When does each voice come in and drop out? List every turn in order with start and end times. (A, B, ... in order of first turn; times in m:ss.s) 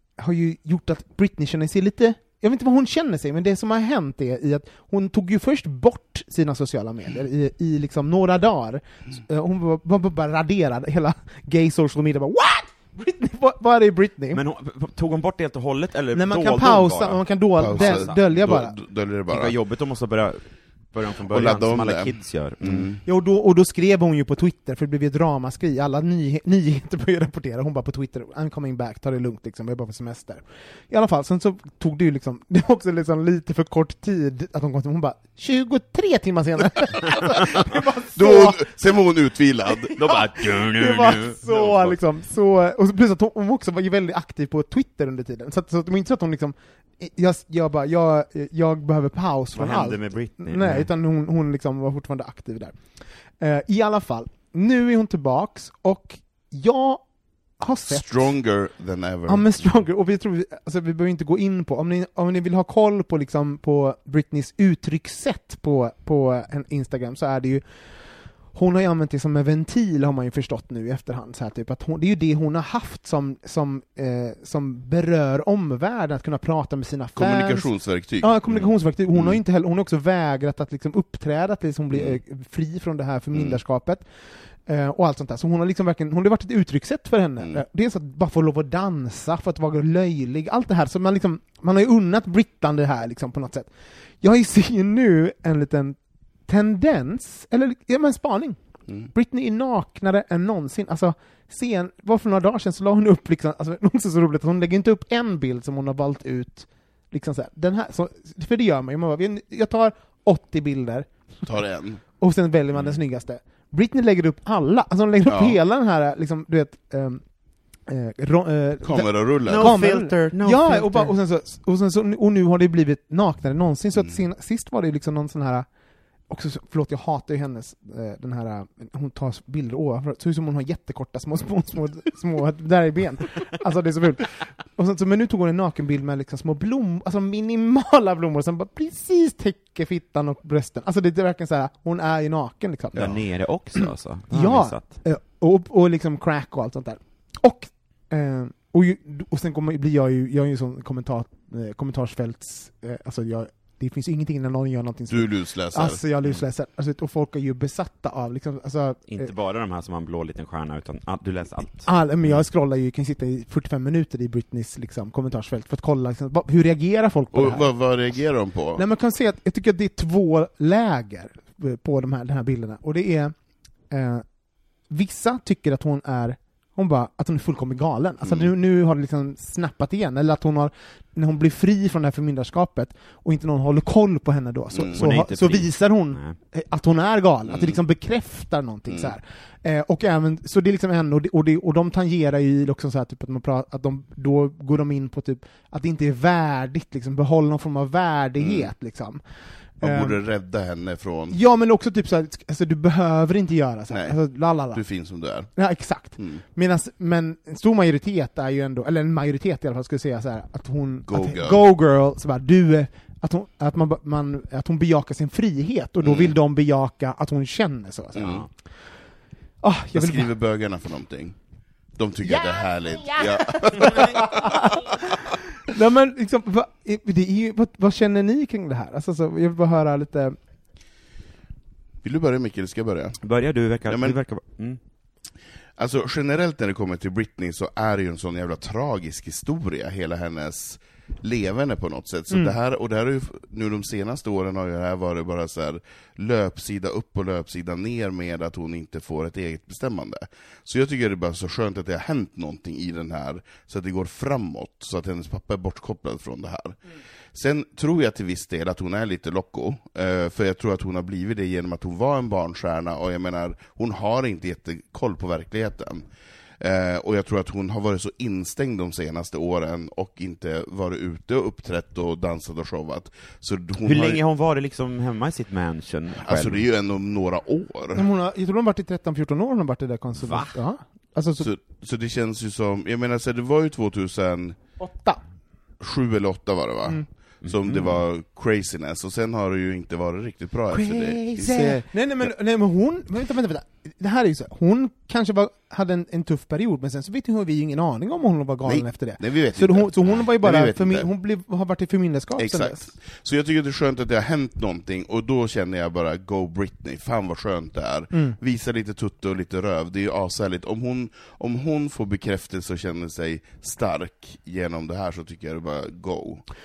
0:00.2-0:14.4 A
0:14.3-0:18.2 B
0:16.1-0:18.8 A
0:17.6-0:19.6 C
0:19.3-0:22.9 B
0:21.3-0:23.0 C
0:23.0-0:38.7 A
0:38.1-0:40.2 C
0:40.0-0:42.0 B
0:40.5-0:52.8 A
0:49.6-0:50.9 B
0:53.4-0:57.0 A
0:57.6-0:58.4 A
0:57.9-0:59.4 C
0:59.3-1:07.6 A
1:08.5-1:24.0 A
1:17.2-1:19.4 C
1:21.9-1:22.2 C
1:23.3-1:23.6 C
1:24.7-1:33.7 A
1:34.2-1:51.1 A
1:51.4-1:52.0 C
1:52.2-1:57.2 A
1:55.3-1:55.6 C
1:57.9-2:05.7 A
1:58.8-1:59.8 C
1:59.5-2:01.1 B
2:06.3-2:23.2 A
2:23.0-2:24.9 B
2:23.8-2:39.3 A
2:35.1-2:36.0 C
2:39.1-2:41.9 B
2:41.8-2:47.7 A
2:47.3-2:48.8 C
2:48.8-2:53.4 A
2:53.9-2:54.2 A
2:54.9-3:19.2 A
2:58.2-2:58.5 C
3:04.7-3:05.0 C
3:04.9-3:06.4 B
3:07.5-3:07.8 C
3:18.4-3:18.7 C
3:19.8-3:20.2 A
3:19.8-3:21.4 C
3:21.3-3:24.8 A
3:23.9-3:24.2 C
3:24.7-3:25.5 C
3:25.6-3:38.5 A
3:31.1-3:31.6 C
3:36.0-3:36.4 C
3:38.2-3:38.5 C
3:39.6-3:40.3 A
3:39.9-3:41.4 C
3:42.0-3:44.9 C
3:43.7-3:50.4 A
3:52.0-3:53.2 C
3:53.2-3:54.8 B
3:53.9-3:54.2 C
3:55.8-4:16.8 C
4:17.3-4:26.1 C
4:26.6-4:34.2 C
4:33.8-4:36.6 B
4:36.2-4:38.1 C
4:37.9-4:41.5 A
4:40.2-4:40.5 B
4:41.4-4:44.6 C
4:44.8-4:45.2 A
4:45.8-4:51.9 C
4:47.4-4:48.0 B
4:50.7-5:02.9 A
4:58.6-5:01.1 C
5:02.4-5:16.4 C